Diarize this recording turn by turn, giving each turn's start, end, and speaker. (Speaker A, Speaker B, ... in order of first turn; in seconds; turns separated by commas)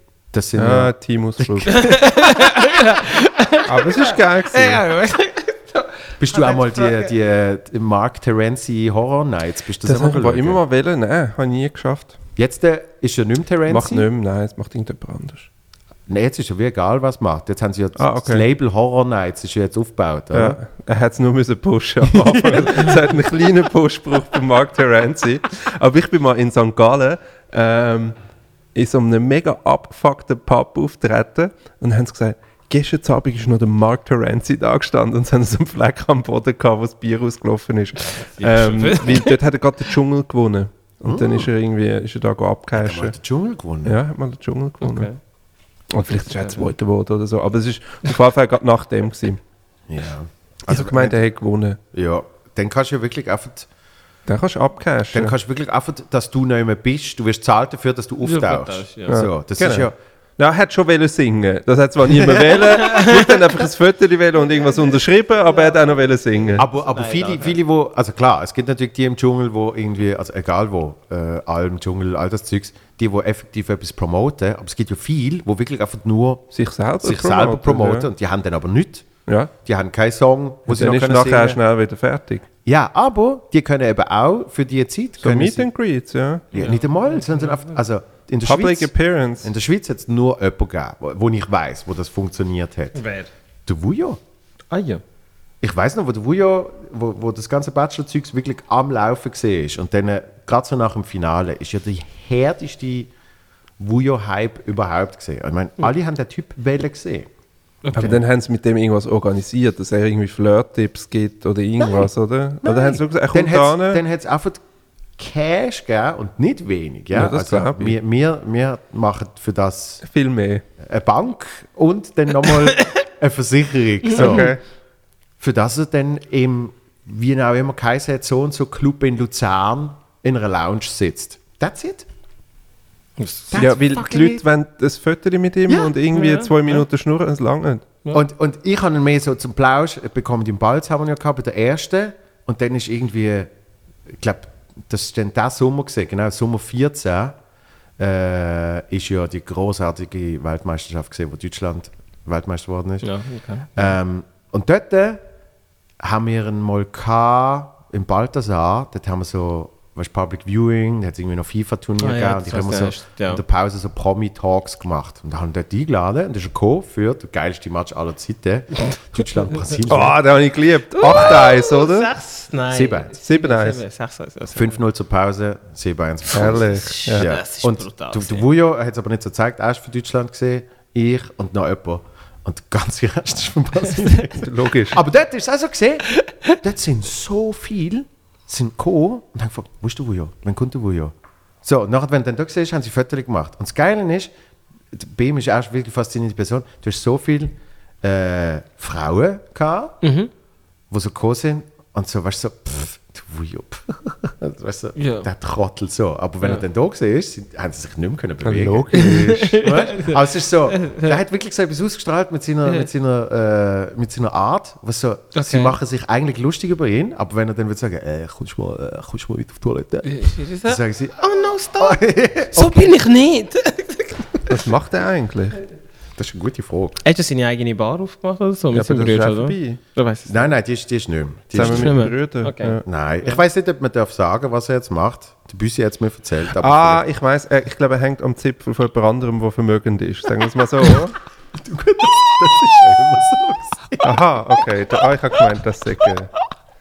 Speaker A: 0.3-1.7, Speaker B: 0.6-1.9, Speaker C: 1.7-7.1, Speaker B: 3.7-4.8, Speaker A: 6.2-10.6, Speaker B: 9.8-12.2, Speaker A: 12.4-14.1, Speaker B: 13.7-15.5, Speaker A: 16.1-20.6, Speaker B: 18.0-18.5, Speaker B: 20.3-28.1, Speaker A: 22.1-22.9, Speaker B: 28.8-43.1, Speaker C: 38.4-39.4, Speaker A: 41.0-41.5, Speaker A: 42.7-44.0, Speaker B: 43.9-45.1, Speaker C: 44.8-45.2, Speaker B: 45.9-49.4, Speaker C: 46.3-46.7, Speaker A: 49.9-51.2, Speaker B: 50.7-51.8, Speaker A: 51.9-53.7, Speaker B: 54.3-55.4, Speaker A: 55.1-60.0, Speaker C: 58.2-59.2, Speaker B: 59.1-66.7, Speaker C: 62.5-63.4, Speaker C: 64.5-67.6, Speaker A: 66.6-79.1, Speaker B: 76.5-78.1, Speaker A: 79.7-81.6, Speaker B: 80.7-82.5, Speaker A: 82.7-85.7, Speaker B: 85.2-86.5, Speaker A: 86.5-88.9, Speaker C: 86.5-87.7, Speaker B: 88.4-89.5, Speaker A: 89.4-93.0, Speaker C: 93.0-93.3, Speaker A: 93.7-94.2, Speaker C: 94.7-95.0, Speaker A: 95.6-103.1, Speaker A: 103.8-107.3, Speaker C: 107.8-108.1, Speaker B: 108.0-114.0, Speaker A: 112.6-114.6, Speaker A: 115.2-120.0, Speaker B: 117.1-118.0, Speaker B: 120.0-120.6, Speaker A: 120.8-124.6, Speaker C: 122.5-122.9, Speaker C: 124.1-124.5, Speaker B: 124.2-124.6, Speaker A: 125.4-132.1, Speaker C: 133.2-133.5, Speaker A: 133.5-134.4, Speaker B: 133.6-137.9, Speaker C: 136.1-136.8, Speaker A: 138.1-143.5, Speaker A: 144.1-147.4, Speaker A: 148.0-153.1, Speaker C: 153.0-153.7, Speaker A: 153.8-155.2, Speaker A: 156.0-170.2, Speaker C: 162.0-163.4, Speaker B: 169.9-172.1, Speaker C: 170.9-174.8, Speaker A: 172.7-173.1, Speaker B: 173.2-173.8, Speaker A: 174.6-194.3, Speaker C: 176.3-178.5, Speaker B: 176.3-177.3, Speaker B: 184.4-185.0, Speaker A: 194.9-200.0, Speaker C: 200.0-200.3, Speaker A: 200.9-221.2, Speaker C: 205.0-205.3, Speaker B: 208.4-209.2, Speaker C: 208.9-211.2, Speaker C: 215.3-215.8, Speaker C: 220.0-224.6, Speaker A: 221.8-222.9, Speaker B: 224.5-225.6, Speaker A: 226.2-227.0, Speaker C: 227.0-230.5, Speaker B: 228.7-229.8, Speaker A: 230.3-232.0, Speaker B: 231.5-232.8, Speaker C: 231.5-233.4, Speaker A: 232.9-237.1, Speaker B: 236.6-241.2, Speaker A: 241.6-244.1, Speaker B: 244.0-246.3